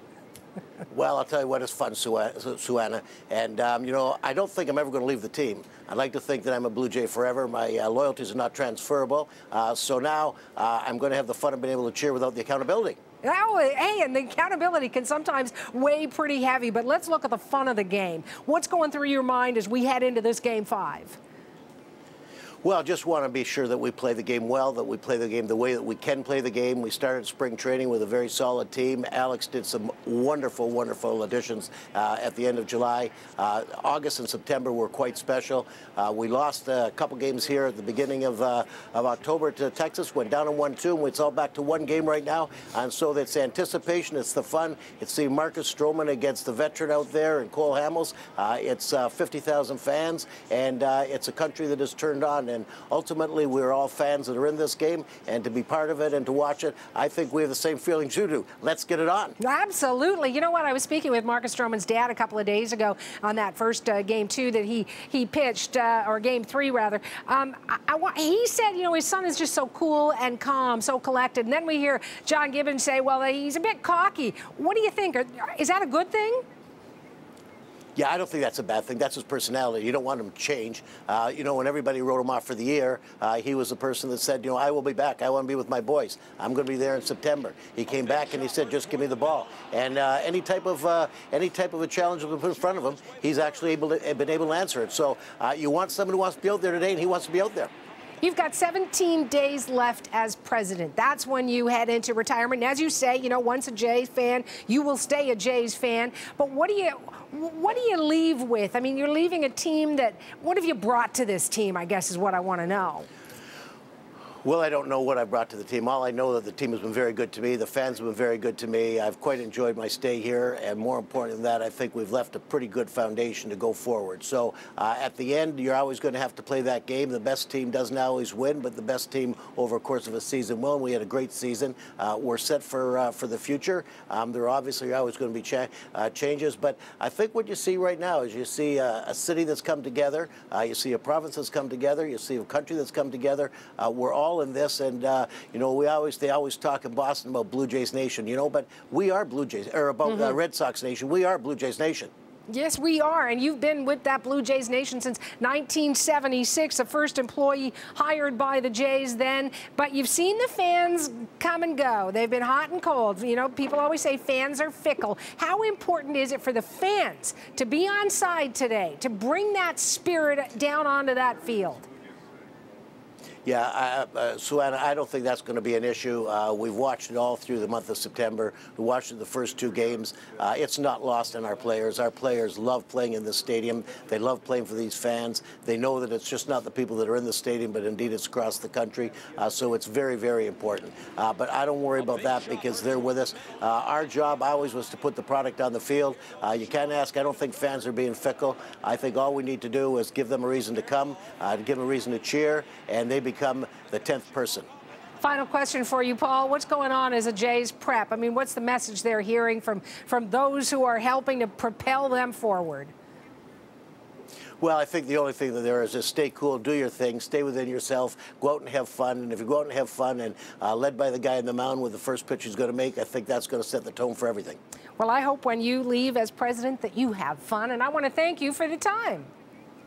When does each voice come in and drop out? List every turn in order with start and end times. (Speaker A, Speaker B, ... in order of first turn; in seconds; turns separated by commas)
Speaker A: 0.9-13.0, Speaker B: 13.2-21.2, Speaker A: 22.6-59.4, Speaker B: 59.4-76.4, Speaker A: 78.0-97.7, Speaker B: 98.2-113.1, Speaker A: 114.4-152.1, Speaker B: 150.1-150.3, Speaker B: 152.5-171.9, Speaker A: 173.4-204.7, Speaker B: 205.2-212.9, Speaker A: 214.6-224.6, Speaker B: 225.0-229.3